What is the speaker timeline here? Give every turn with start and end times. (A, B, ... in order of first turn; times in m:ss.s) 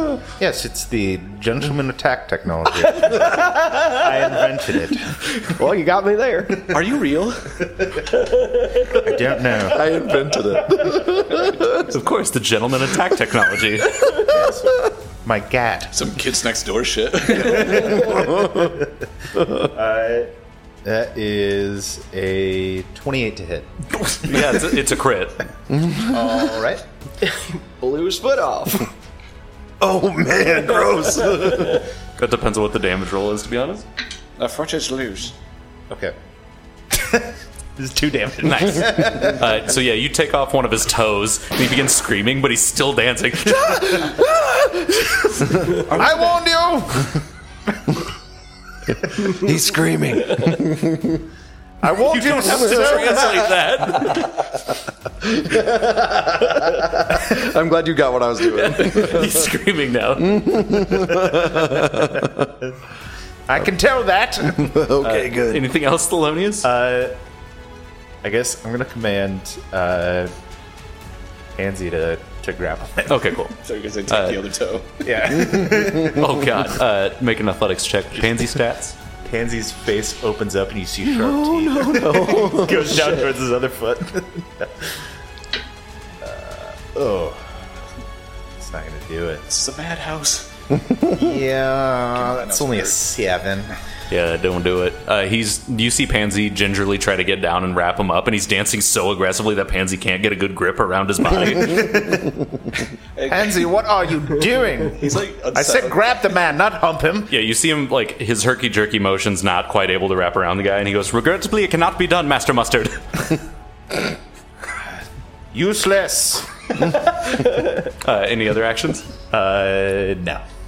0:00.3-0:05.3 A
0:03.5-0:03.9 B
0:05.4-0:06.7 B
0:06.7-0:07.6 C
0:08.9-0:09.9 A
0:09.6-0:11.9 D
0:11.8-0:14.1 E
0:14.1-0:16.0 A
0:14.1-0:14.6 D
0:15.9-0:18.0 C
0:17.4-0:18.9 A
0:18.1-0:18.6 D
0:19.5-0:20.3 A
0:20.8-0:24.6 A
0:24.0-0:25.5 E
0:25.7-0:26.6 D
0:26.0-0:26.8 A
0:27.8-0:28.9 B
0:29.8-0:31.9 D
0:32.2-0:33.8 E
0:34.4-0:35.3 C
0:35.9-0:36.2 A
0:36.9-0:39.4 A
0:38.4-0:45.6 E
0:45.7-0:47.2 A
0:49.1-0:51.2 D
0:51.8-0:53.5 A
0:52.1-0:54.6 E
0:55.2-0:59.5 D
0:58.5-1:01.0 E
1:00.2-1:02.4 D
1:02.3-1:02.7 A
1:03.5-1:04.8 A
1:04.4-1:05.7 D
1:05.0-1:06.7 E
1:06.6-1:07.2 A
1:08.2-1:10.3 A
1:11.5-1:13.4 A
1:13.1-1:13.5 E
1:13.6-1:15.1 C
1:14.1-1:14.4 E
1:15.0-1:16.4 A
1:15.5-1:15.9 D
1:16.0-1:19.0 E
1:19.2-1:25.0 A
1:21.2-1:22.8 E
1:21.8-1:22.7 D
1:26.2-1:27.7 A
1:28.6-1:29.5 A
1:29.5-1:30.5 C
1:30.9-1:31.2 D
1:31.1-1:33.7 A
1:32.1-1:33.0 C
1:34.1-1:42.2 E
1:41.6-1:42.3 A
1:43.2-1:43.7 C
1:43.3-1:47.3 A
1:44.9-1:46.0 C
1:47.3-1:53.4 E
1:55.5-1:57.0 A
1:57.8-1:59.1 E
1:59.3-2:00.4 A